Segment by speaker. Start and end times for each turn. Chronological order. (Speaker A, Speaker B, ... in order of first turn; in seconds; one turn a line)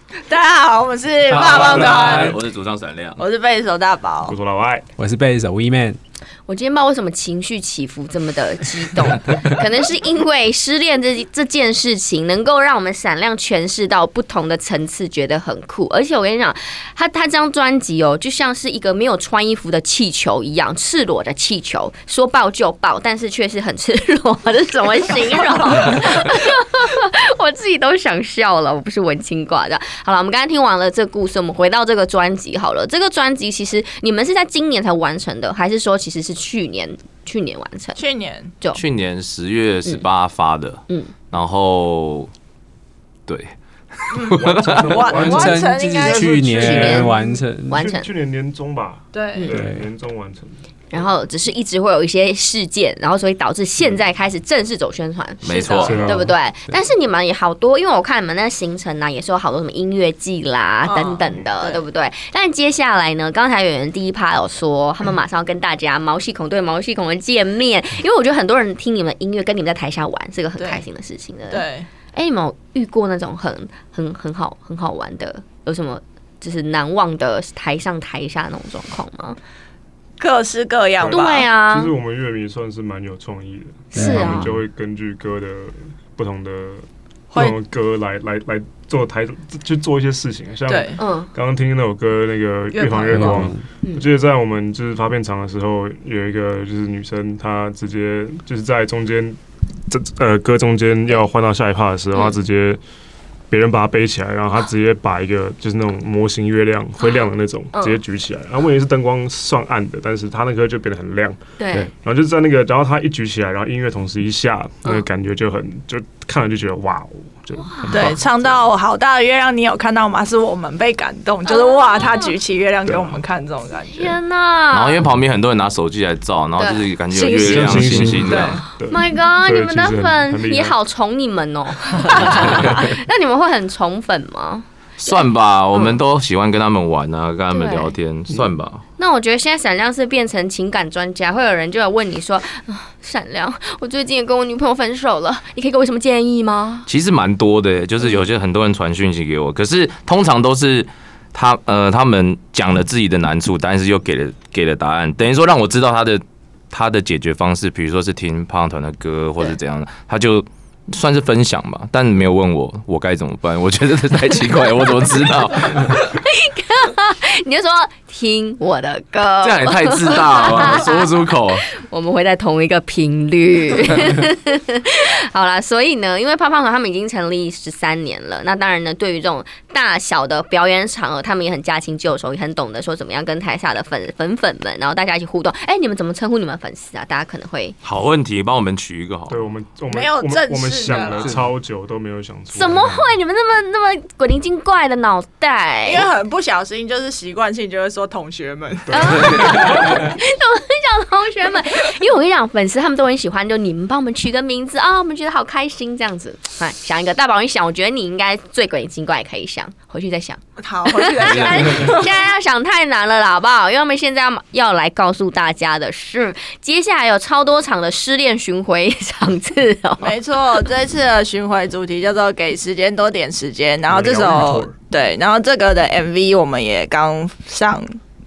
Speaker A: 0.3-2.4
Speaker B: 1.3-2.3
Speaker C: 1.3-3.2
Speaker A: 3.2-4.3
Speaker D: 4.3-4.8
Speaker B: 5.0-6.0
Speaker E: 6.5-38.0
Speaker A: 38.0-38.5
Speaker C: 38.7-42.3
Speaker C: 43.3-44.9
Speaker A: 44.1-46.9
Speaker D: 44.3-50.6
Speaker B: 45.0-47.8
Speaker E: 46.6-47.1
Speaker E: 47.7-48.1
Speaker A: 49.1-49.5
Speaker B: 49.5-49.8
Speaker E: 50.9-79.4
Speaker C: 55.4-56.1
Speaker D: 55.8-56.3
Speaker A: 60.9-61.8
Speaker A: 70.6-70.8
Speaker A: 71.5-71.9
Speaker A: 80.2-81.5
Speaker D: 81.0-99.4
Speaker E: 81.1-81.9
Speaker B: 83.9-84.5
Speaker E: 83.9-84.5
Speaker A: 90.7-91.0
Speaker E: 91.0-91.3
Speaker A: 92.7-93.5
Speaker B: 93.1-93.6
Speaker D: 99.9-102.8
Speaker E: 102.1-102.4
Speaker D: 103.5-111.4
Speaker E: 107.7-108.0
Speaker E: 111.6-111.9
Speaker D: 112.0-118.6
Speaker E: 117.6-118.1
Speaker A: 117.9-124.2
Speaker E: 121.5-122.3
Speaker D: 122.8-123.2
Speaker E: 123.9-125.0
Speaker C: 124.7-128.6
Speaker A: 127.1-128.6
Speaker D: 127.4-130.8
Speaker E: 128.9-135.2
Speaker D: 132.1-132.8
Speaker C: 135.0-138.8
Speaker E: 135.7-136.0
Speaker E: 137.5-137.9
Speaker E: 139.0-146.9
Speaker C: 146.9-166.0
Speaker E: 165.8-187.8
Speaker C: 169.4-171.7
Speaker C: 187.8-189.4
Speaker D: 189.3-193.1
Speaker A: 189.9-191.4
Speaker E: 192.5-196.1
Speaker A: 195.9-199.8
Speaker D: 198.9-200.0
Speaker E: 198.9-220.2
Speaker A: 210.6-212.1
Speaker C: 211.3-211.9
Speaker A: 220.0-227.9
Speaker D: 223.9-224.8